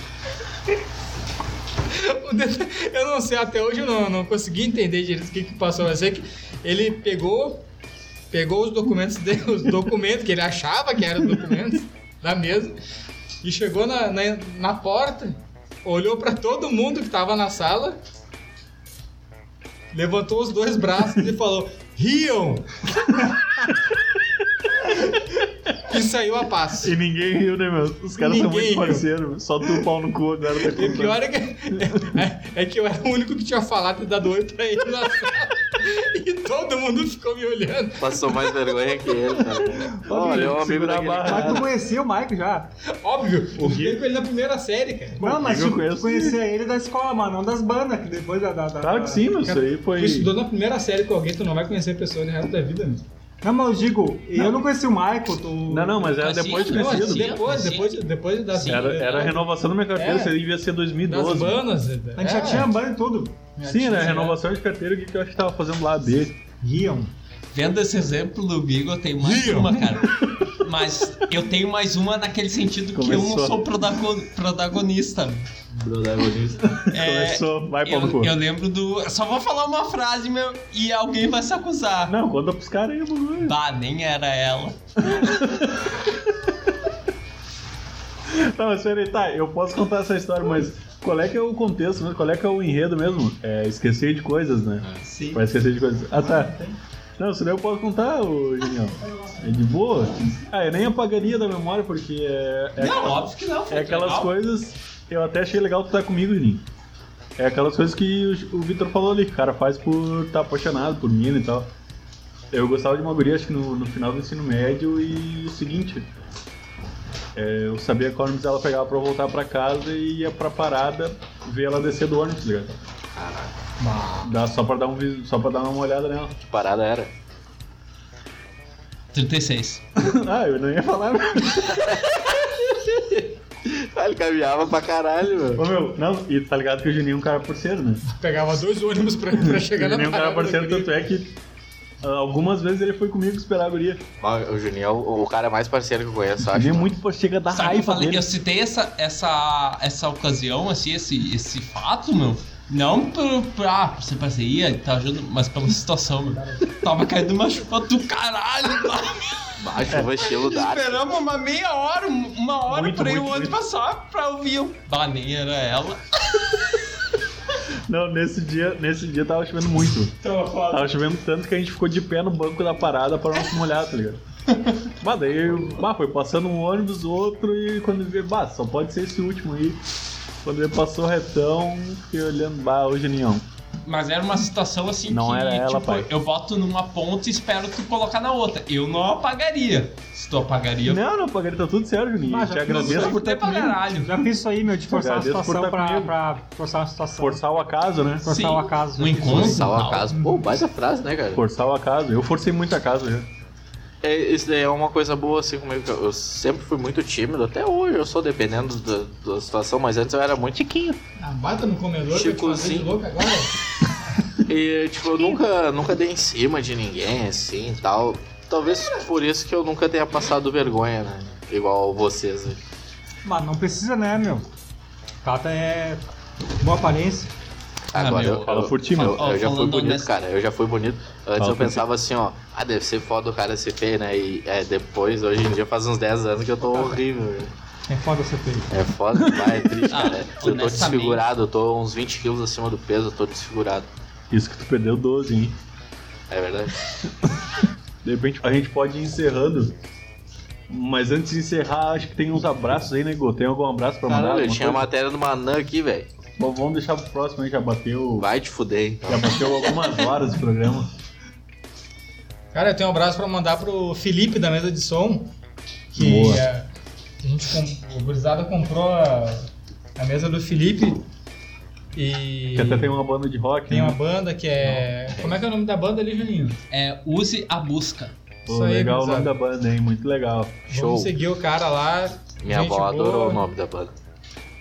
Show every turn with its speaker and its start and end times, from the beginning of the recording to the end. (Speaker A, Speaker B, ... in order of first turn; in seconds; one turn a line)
Speaker A: 1.9-7.6
Speaker A: 8.3-12.8
Speaker A: 13.4-18.0
Speaker A: 19.9-23.4
Speaker A: 24.8-25.2
Speaker A: 25.8-26.9
Speaker B: 26.8-31.2
Speaker A: 28.2-29.1
Speaker A: 30.6-38.7
Speaker C: 38.0-41.7
Speaker B: 39.5-41.7
Speaker D: 40.1-40.5
Speaker D: 41.2-42.7
Speaker A: 42.9-45.2
Speaker B: 43.6-44.0
Speaker D: 45.2-49.3
Speaker B: 45.2-46.4
Speaker B: 48.8-50.3
Speaker A: 49.5-53.0
Speaker D: 53.4-56.3
Speaker B: 55.7-57.3
Speaker E: 56.2-57.9
Speaker A: 56.7-60.4
Speaker E: 58.5-59.0
Speaker B: 58.7-61.6
Speaker A: 61.1-62.7
Speaker D: 62.2-64.4
Speaker B: 63.7-66.3
Speaker D: 66.6-67.1
Speaker E: 67.5-75.5
Speaker A: 69.2-70.0
Speaker B: 70.1-70.5
Speaker B: 73.0-73.9
Speaker C: 75.7-76.8
Speaker B: 76.7-78.3
Speaker E: 76.9-82.2
Speaker B: 82.1-83.5
Speaker E: 83.4-85.2
Speaker B: 85.0-86.5
Speaker B: 88.3-96.6
Speaker E: 95.0-95.4
Speaker D: 96.3-96.8
Speaker B: 97.2-106.6
Speaker E: 102.8-104.3
Speaker B: 107.4-111.7
Speaker B: 112.5-116.1
Speaker B: 117.3-122.8
Speaker C: 123.2-123.5
Speaker B: 124.2-126.4
Speaker C: 126.5-127.1
Speaker E: 129.1-129.8
Speaker B: 130.0-132.2
Speaker C: 131.9-132.2
Speaker C: 132.8-135.7
Speaker B: 135.6-138.0
Speaker A: 138.1-140.9
Speaker B: 139.3-141.3
Speaker B: 142.0-144.0
Speaker C: 144.2-147.0
Speaker B: 146.5-148.3
Speaker E: 147.5-166.7
Speaker C: 159.6-161.1
Speaker B: 162.7-163.6
Speaker B: 167.9-170.2
Speaker E: 170.2-170.9
Speaker B: 170.7-174.2
Speaker E: 174.5-174.8
Speaker B: 175.0-179.8
Speaker B: 180.4-183.4
Speaker E: 183.8-191.0
Speaker B: 185.1-186.1
Speaker B: 190.9-193.8
Speaker D: 192.3-193.2
Speaker E: 192.7-194.2
Speaker D: 193.9-197.4
Speaker B: 194.9-196.1
Speaker B: 197.2-198.3
Speaker D: 198.2-199.8
Speaker E: 198.2-200.1
Speaker C: 199.2-201.4
Speaker B: 201.3-203.3
Speaker C: 204.0-211.0
Speaker A: 211.2-213.5
Speaker C: 212.1-212.9
Speaker C: 214.4-222.6
Speaker D: 223.2-224.5
Speaker D: 225.2-226.0
Speaker D: 226.6-227.3
Speaker C: 227.9-237.5
Speaker E: 227.9-230.1
Speaker B: 228.5-229.2
Speaker B: 231.4-231.8
Speaker D: 237.9-238.7
Speaker C: 238.7-243.9
Speaker D: 239.2-239.7
Speaker E: 239.9-241.2
Speaker B: 244.3-245.6
Speaker C: 246.3-246.8
Speaker B: 248.0-249.7
Speaker B: 250.7-254.8
Speaker C: 254.1-256.1
Speaker B: 256.4-258.3
Speaker C: 258.2-259.9
Speaker B: 259.1-260.9
Speaker A: 262.5-265.3
Speaker A: 265.9-266.7
Speaker B: 266.0-266.4
Speaker A: 267.2-271.0
Speaker A: 271.9-272.9
Speaker B: 272.5-274.0
Speaker A: 273.7-276.6
Speaker C: 275.1-275.4
Speaker E: 276.7-278.1
Speaker B: 278.5-280.7
Speaker A: 278.5-279.3
Speaker A: 280.7-283.4
Speaker C: 280.7-281.1
Speaker C: 282.4-283.9